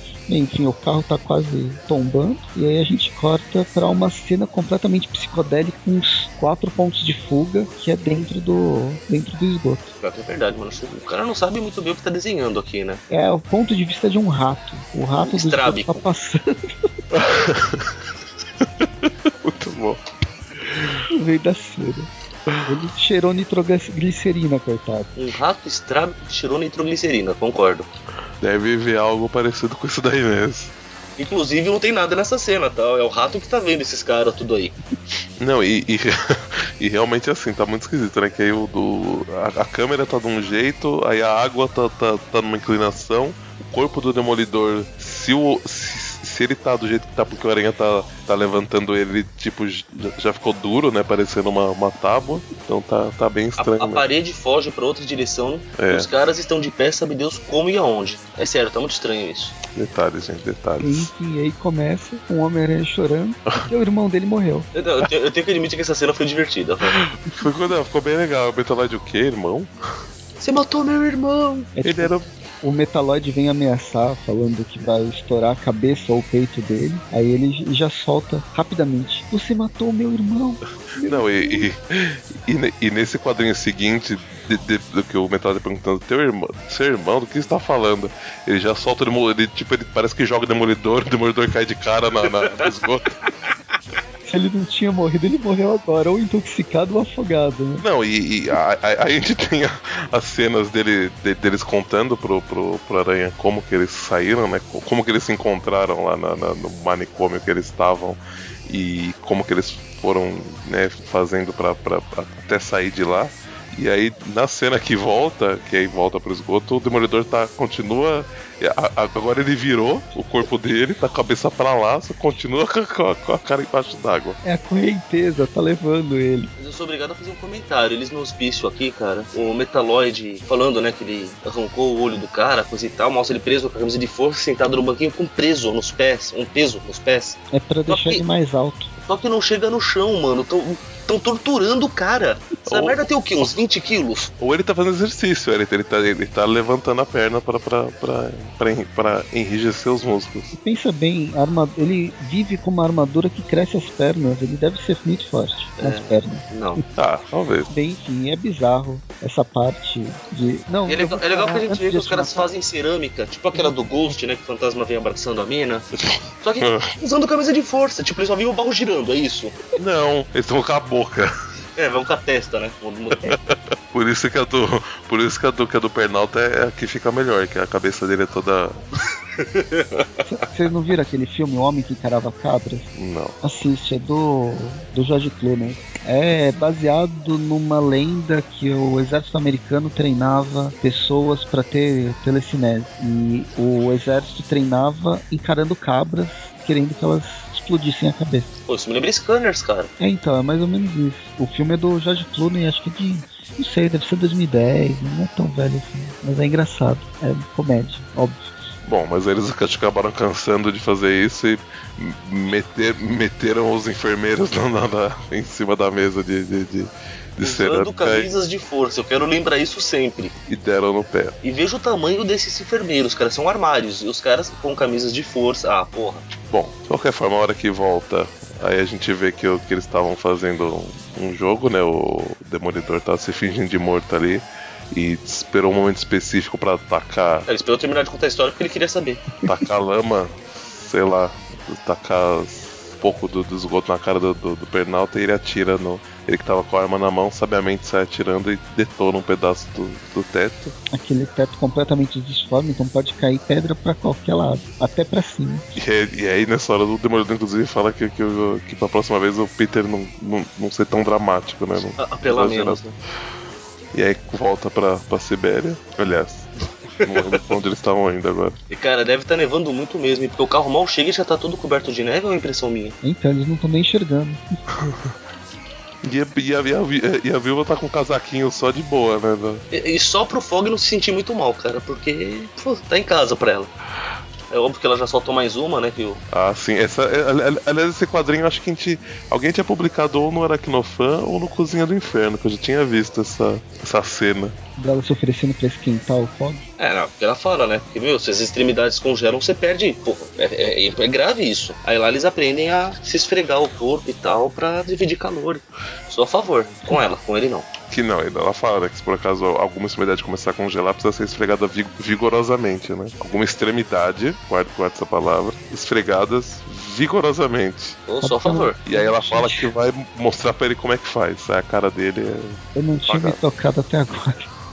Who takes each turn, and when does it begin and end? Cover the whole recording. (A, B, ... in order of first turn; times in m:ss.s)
0:00.3-0:09.9 A
0:10.0-0:13.0 B
0:13.1-0:16.7 A
0:15.2-0:16.0 B
0:17.1-0:17.9 C
0:18.6-0:20.0 C
0:20.6-0:21.0 C
0:21.1-0:22.1 A
0:22.6-0:25.1 A
0:25.2-0:27.9 B
0:28.4-0:30.7 C
0:31.2-0:34.7 B
0:35.4-0:54.1 C
0:53.6-0:59.6 B
0:55.8-0:56.1 C
0:59.7-1:01.1 C
1:00.8-1:04.7 A
1:04.7-1:07.0 B
1:06.9-1:09.7 C
1:10.4-1:11.7 B
1:11.8-1:21.7 A
1:11.8-1:12.3 C
1:21.0-1:33.2 C
1:34.2-1:37.8 A
1:37.8-2:04.4 C
2:04.4-2:06.5 A
2:06.6-2:18.2 B
2:17.5-2:18.9 A
2:19.0-2:24.3 B
2:22.7-2:23.1 C
2:24.4-2:30.5 C
2:30.5-2:36.5 A
2:35.8-2:36.8 B
2:37.0-2:37.7 C
2:37.7-2:42.5 A
2:40.9-2:45.9 B
2:43.6-2:43.8 A
2:46.4-2:49.6 B
2:46.6-2:46.9 C
2:49.8-2:51.3 C
2:51.8-2:53.4 B
2:53.3-2:58.8 C
2:59.4-3:00.1 B
3:00.2-3:02.9 A
3:03.0-3:03.4 C
3:03.4-3:18.5 A
3:18.7-3:19.9 B
3:20.0-3:28.4 A
3:28.8-3:38.3 C
3:37.4-3:40.4 B
3:40.5-3:41.4 C
3:41.4-3:46.3 B
3:46.5-3:57.5 C
3:57.5-3:59.4 B
3:59.4-4:10.7 C
4:10.9-4:15.7 A
4:15.8-4:22.8 C
4:22.0-4:22.9 B
4:23.9-4:26.5 C
4:27.0-4:28.6 C
4:27.0-4:27.4 B
4:28.7-4:33.0 B
4:33.0-4:34.4 A
4:34.8-4:35.1 C
4:36.0-4:39.6 C
4:39.7-4:43.7 B
4:44.5-4:46.2 B
4:46.3-4:54.6 C
4:54.8-4:56.6 A
4:56.8-5:07.7 B
5:07.9-5:18.0 C
5:18.1-5:18.8 B
5:18.2-5:19.7 A
5:18.8-5:23.4 C
5:22.8-5:24.5 A